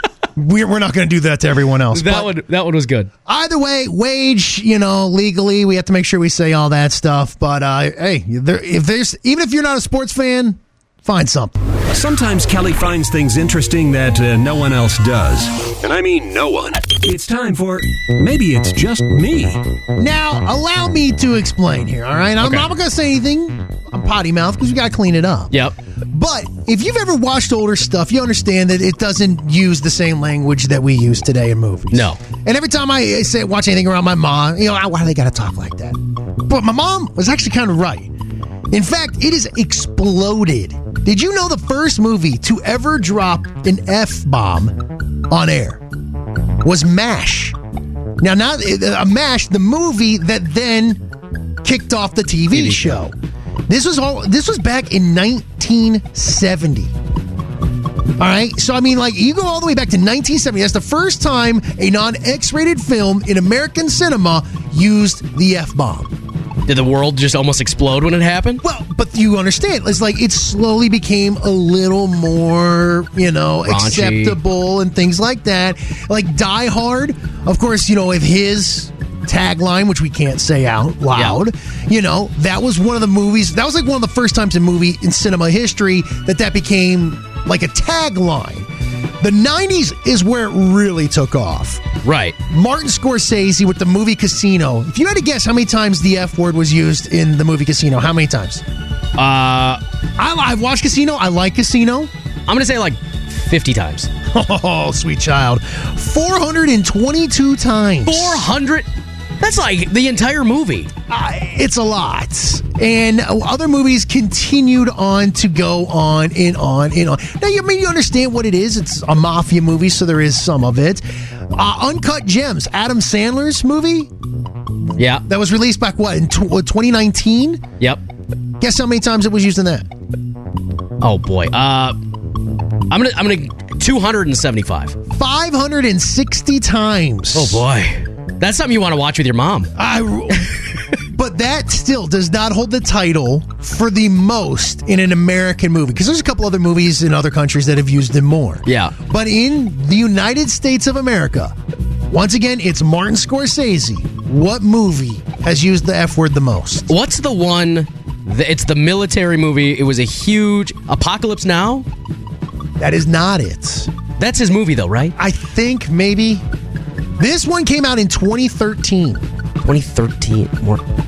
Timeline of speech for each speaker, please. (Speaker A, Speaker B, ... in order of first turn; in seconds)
Speaker A: 0.3-2.3, 3.2-11.6, 20.0-25.5, 26.1-38.1, 38.7-45.8, 46.6-47.5, 48.2-51.0, 51.6-53.1, 53.7-56.9, 58.2-66.1, 68.6-88.7, 89.2-91.8, 92.5-98.6, 100.2-102.1, 104.3-108.4, 111.1-124.1, 125.2-127.6, 128.6-129.9, 135.1-137.6, 139.8-151.6, 152.1-156.9, 162.8-163.9, 165.2-166.4, 167.2-169.2
Speaker B: 1.9-3.1, 22.4-22.7, 25.5-25.8, 31.9-32.2, 52.5-53.0, 66.7-68.6, 73.7-74.4, 81.1-81.4, 92.0-92.4, 99.2-99.8, 102.5-104.1, 108.0-108.9, 109.4-110.9, 125.0-125.2, 131.0-132.0, 132.9-135.0, 137.3-139.7, 148.7-148.9, 156.9-161.9, 164.2-165.1, 169.6-170.8
Speaker C: 11.9-19.6